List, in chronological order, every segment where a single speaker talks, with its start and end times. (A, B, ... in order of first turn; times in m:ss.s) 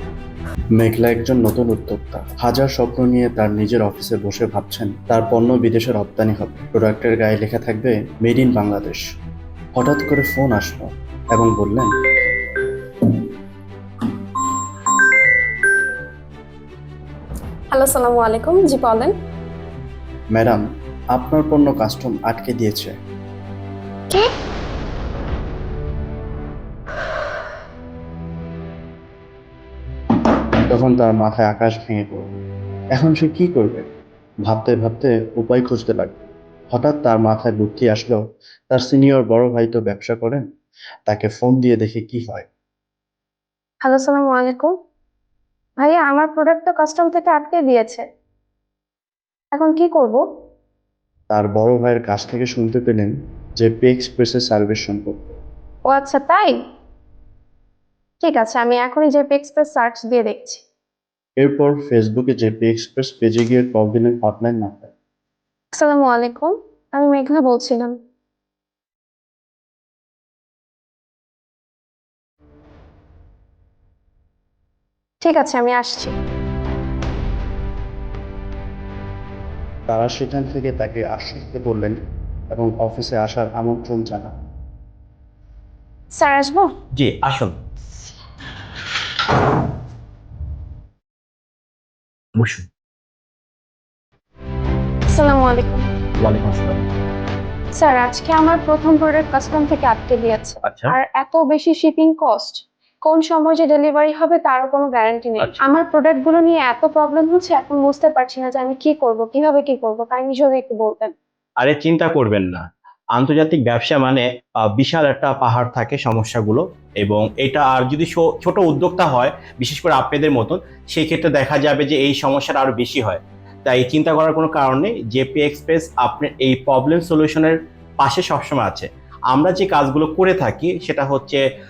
0:00.8-0:09.0 A
0:09.8-0:11.9 A
0:17.7-0:19.1 B
0:20.3-0:20.6 A
0:21.1-0:23.0 A
0:30.7-0:32.4 A
0:33.0-0:33.8 A
0:34.5-0:40.4 A
0:41.1-0:42.5 A
0:43.8-0:44.7 B
0:45.8-0:48.0 B
0:49.5-0:50.2 B
0:51.3-0:55.3 A
0:55.8-0:56.6 B
0:58.2-1:00.6 B
1:01.4-1:04.9 A
1:05.7-1:08.0 B
1:15.2-1:16.2 B
1:19.9-1:22.0 A
1:22.5-1:24.3 A
1:26.1-1:26.7 B
1:26.9-1:27.6 C
1:32.4-1:32.7 C
1:35.1-1:35.9 B
1:36.2-1:36.8 C
1:37.7-1:51.1 B
1:40.6-1:41.0 C
1:51.6-1:52.6 C
1:53.2-2:11.4 C